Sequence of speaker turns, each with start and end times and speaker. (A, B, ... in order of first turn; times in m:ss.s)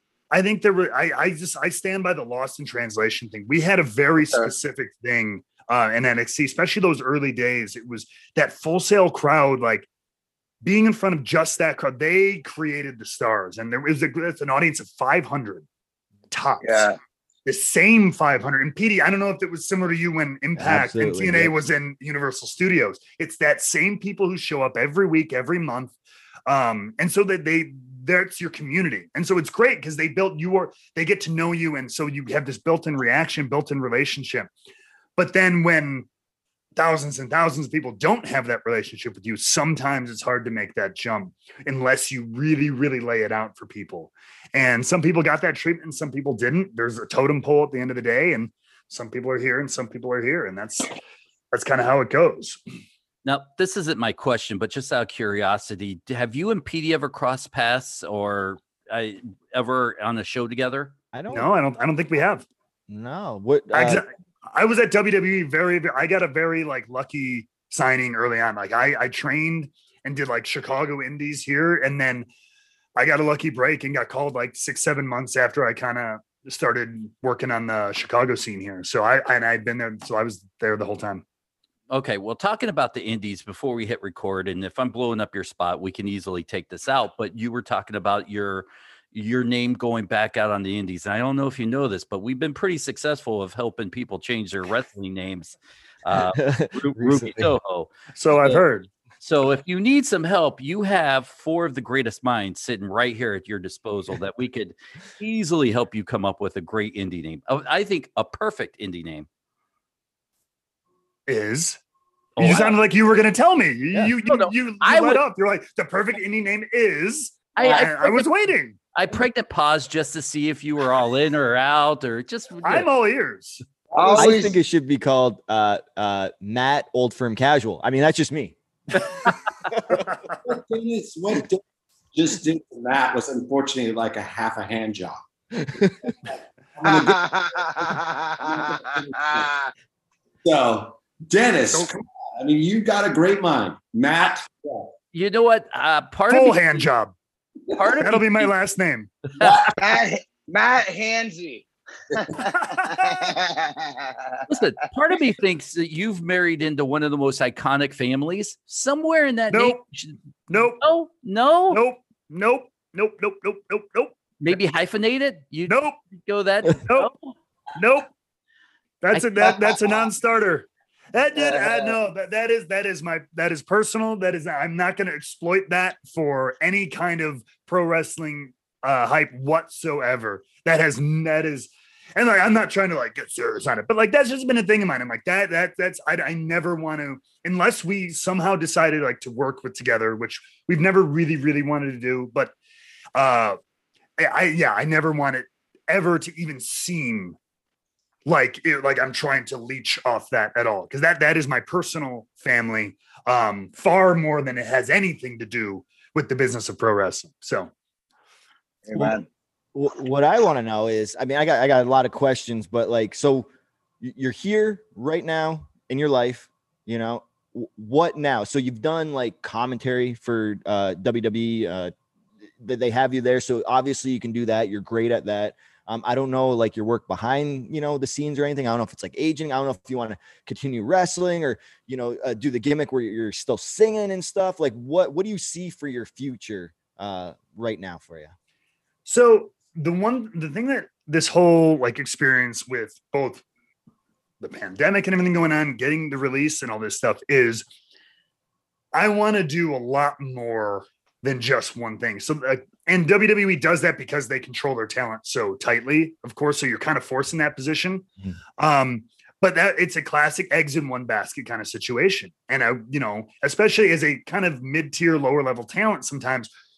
0:00.3-0:09.9 A
0:10.6-0:15.7 A
0:16.3-0:16.9 A
0:16.6-0:17.0 B
0:17.5-0:26.0 A
0:20.6-0:21.6 C
0:26.5-0:34.5 A
0:35.2-0:36.1 A
0:36.8-0:50.9 A
0:51.5-0:52.6 A
0:53.2-1:00.9 D
1:01.1-1:01.5 C
1:01.3-1:02.5 A
1:02.9-1:04.0 C
1:03.7-1:12.3 A
1:13.0-1:21.2 A
1:21.9-1:38.6 D
1:36.3-1:37.5 C
1:38.2-1:38.9 A
1:39.2-1:49.3 D
1:51.3-1:51.8 A
1:52.4-1:52.8 D
1:52.4-1:58.8 A
1:54.2-1:55.2 D
1:57.6-1:58.3 D
1:58.9-2:02.9 D
2:02.6-2:04.4 A
2:04.0-2:04.6 B
2:04.2-2:10.0 C
2:10.4-2:11.6 E
2:12.1-2:15.2 E
2:15.6-2:16.0 C
2:16.8-2:17.2 E
2:16.8-2:19.7 B
2:18.4-2:19.5 E
2:20.4-2:24.9 E
2:25.1-2:26.9 D
2:26.3-2:27.1 A
2:27.8-2:28.5 D
2:28.0-2:29.1 A
2:29.4-2:29.7 D
2:29.4-2:29.8 E
2:29.8-2:34.4 B
2:32.4-2:33.3 A
2:34.5-2:40.2 D
2:39.5-2:39.8 A
2:40.5-2:40.8 A
2:40.8-2:41.8 D
2:41.7-2:44.2 A
2:44.4-2:47.4 D
2:45.7-2:46.0 A
2:47.8-2:48.1 A
2:49.0-3:12.5 A
2:49.4-2:49.9 B
2:51.4-2:52.0 B
3:13.2-3:13.6 A
3:14.2-3:17.4 A
3:18.3-3:27.7 A
3:28.8-3:29.3 B
3:29.8-3:33.5 C
3:34.0-3:41.9 C
3:42.6-3:58.3 C
3:59.1-4:03.4 A
4:04.4-4:07.6 A
4:08.9-4:18.0 A
4:18.6-4:26.5 A